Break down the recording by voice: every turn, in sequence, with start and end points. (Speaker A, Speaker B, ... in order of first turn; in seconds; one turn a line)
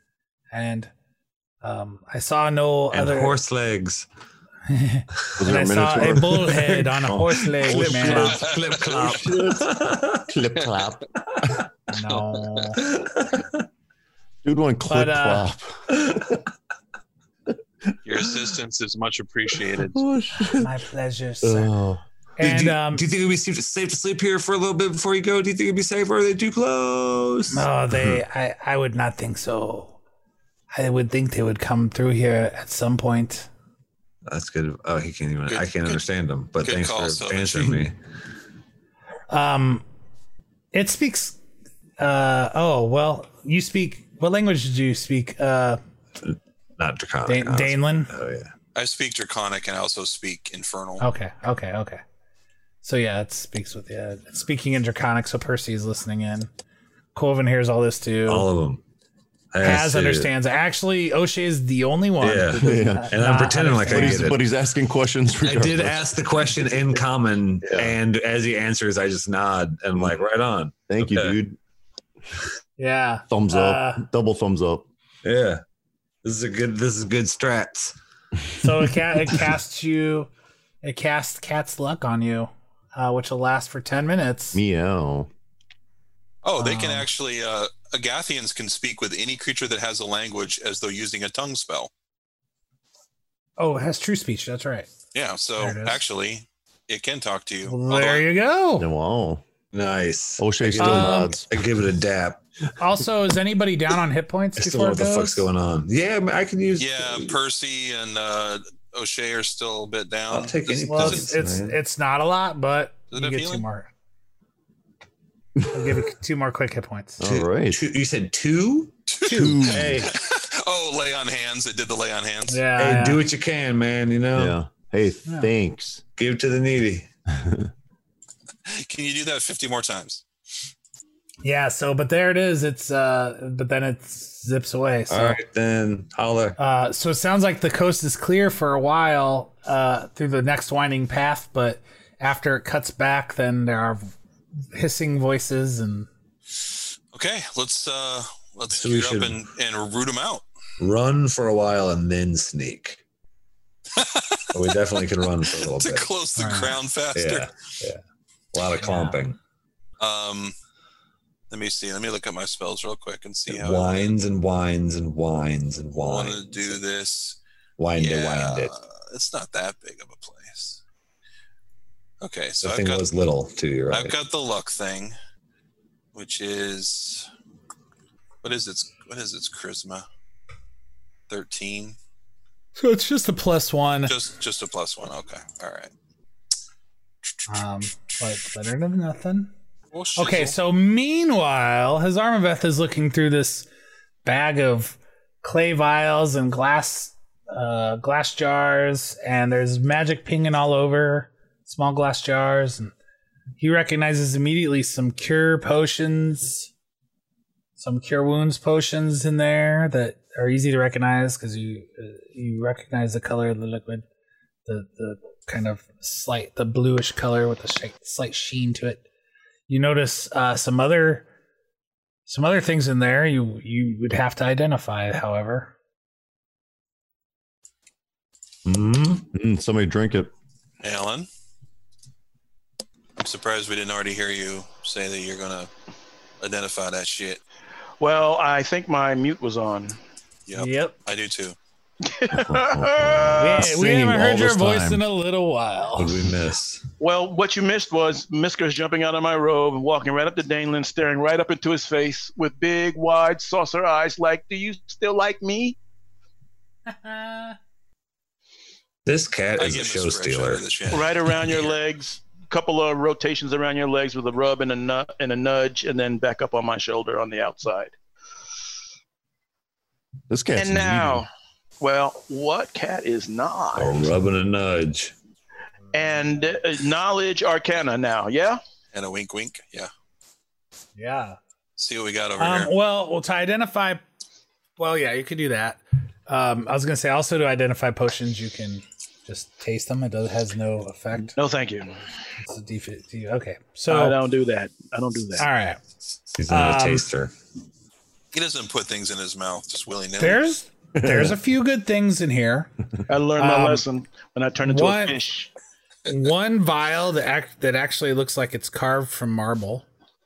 Speaker A: 0.5-0.9
Speaker A: 1.6-3.4
Speaker B: 2.9-4.1
Speaker A: 4.7-8.5
Speaker C: 5.4-9.7
Speaker B: 6.0-10.3
Speaker D: 8.2-8.8
Speaker C: 10.3-11.6
Speaker A: 11.9-12.8
Speaker B: 12.7-13.7
Speaker C: 14.4-15.8
Speaker A: 14.9-15.5
Speaker D: 18.1-20.0
Speaker C: 19.8-20.7
Speaker A: 20.4-21.7
Speaker C: 21.4-22.0
Speaker A: 22.4-23.1
Speaker B: 22.4-27.7
Speaker A: 27.5-30.0
Speaker A: 30.7-33.5
Speaker B: 34.3-38.0
Speaker D: 35.5-36.0
Speaker D: 36.6-37.9
Speaker A: 39.3-39.8
Speaker A: 40.7-41.4
Speaker A: 42.0-45.8
Speaker B: 46.2-48.5
Speaker A: 47.3-48.1
Speaker D: 48.8-51.0
Speaker A: 51.0-52.0
Speaker A: 52.8-56.5
Speaker A: 57.1-58.5
Speaker B: 58.3-58.8
Speaker B: 59.5-60.3
Speaker A: 59.6-64.4
Speaker B: 62.2-64.4
Speaker C: 62.6-63.1
Speaker C: 63.9-66.2
Speaker B: 65.4-71.4
Speaker C: 67.7-68.0
Speaker C: 70.9-71.6
Speaker A: 72.8-74.0
Speaker C: 73.3-74.9
Speaker B: 75.2-75.6
Speaker B: 76.2-78.0
Speaker A: 78.6-80.3
Speaker A: 80.8-84.6
Speaker C: 84.5-85.3
Speaker D: 86.4-91.9
Speaker A: 86.6-87.1
Speaker A: 93.6-94.9
Speaker D: 95.1-98.2
Speaker A: 95.6-96.0
Speaker A: 97.7-98.9
Speaker C: 98.8-99.4
Speaker B: 99.7-102.4
Speaker C: 100.4-101.5
Speaker A: 100.8-101.4
Speaker A: 102.8-105.5
Speaker B: 104.6-107.4
Speaker D: 106.8-111.3
Speaker B: 110.3-111.8
Speaker A: 110.9-113.9
Speaker D: 113.1-113.6
Speaker C: 115.6-116.0
Speaker A: 115.7-117.2
Speaker C: 117.2-117.8
Speaker B: 117.2-119.0
Speaker D: 119.1-122.6
Speaker A: 119.2-120.1
Speaker C: 119.3-120.1
Speaker A: 122.5-123.2
Speaker B: 122.8-124.6
Speaker C: 124.3-126.0
Speaker A: 125.3-125.5
Speaker B: 126.2-127.1
Speaker C: 127.3-127.7
Speaker D: 128.7-130.2
Speaker A: 131.4-135.4
Speaker B: 135.1-136.6
Speaker A: 136.6-144.1
Speaker A: 144.7-146.1
Speaker D: 147.1-150.4
Speaker B: 148.8-149.4
Speaker B: 150.8-153.0
Speaker D: 154.0-154.7
Speaker B: 154.5-156.1
Speaker D: 155.4-157.5
Speaker A: 156.4-156.8
Speaker B: 157.2-158.0
Speaker B: 158.5-159.4
Speaker A: 158.8-159.2
Speaker D: 160.0-160.6
Speaker D: 161.5-164.1
Speaker B: 163.5-166.8
Speaker D: 166.0-167.4
Speaker B: 167.8-168.7
Speaker D: 167.9-170.8
Speaker D: 172.2-173.1
Speaker B: 172.6-174.2
Speaker D: 173.9-175.2
Speaker D: 176.2-177.3
Speaker D: 178.4-180.1
Speaker D: 181.3-182.0
Speaker A: 182.8-184.1
Speaker D: 184.1-185.9
Speaker A: 187.5-189.5
Speaker D: 189.9-190.6
Speaker A: 190.2-193.7
Speaker A: 194.2-202.9
Speaker A: 203.6-206.7
Speaker A: 207.8-214.1
Speaker A: 214.7-219.0
Speaker A: 219.7-221.3
Speaker A: 222.3-225.7
Speaker B: 228.7-229.3
Speaker C: 229.3-230.3
Speaker D: 230.8-231.3
Speaker D: 233.2-235.7
Speaker D: 236.4-237.4
Speaker E: 238.0-240.0
Speaker D: 240.5-241.6
Speaker A: 240.6-241.0
Speaker E: 242.0-243.7
Speaker C: 242.3-245.0
Speaker A: 243.4-246.2
Speaker B: 246.0-246.8
Speaker E: 247.0-255.8
Speaker A: 256.9-257.6
Speaker B: 259.1-260.7
Speaker D: 259.6-261.8
Speaker E: 260.9-267.9
Speaker C: 270.3-271.2
Speaker E: 270.6-271.3
Speaker E: 271.8-274.1
Speaker B: 273.8-275.1
Speaker E: 275.9-278.6
Speaker A: 275.9-276.4
Speaker D: 278.9-279.9
Speaker A: 281.0-281.4
Speaker D: 281.8-282.7
Speaker A: 282.4-284.0
Speaker A: 284.8-291.3
Speaker E: 291.4-292.0
Speaker A: 292.4-294.2
Speaker E: 293.9-295.5
Speaker A: 295.4-295.8
Speaker B: 296.3-297.3
Speaker A: 296.5-297.1
Speaker D: 298.3-300.4
Speaker A: 300.2-302.7
Speaker C: 301.0-301.4
Speaker E: 303.1-305.5
Speaker A: 303.4-303.9
Speaker A: 304.6-305.2
Speaker A: 306.1-309.9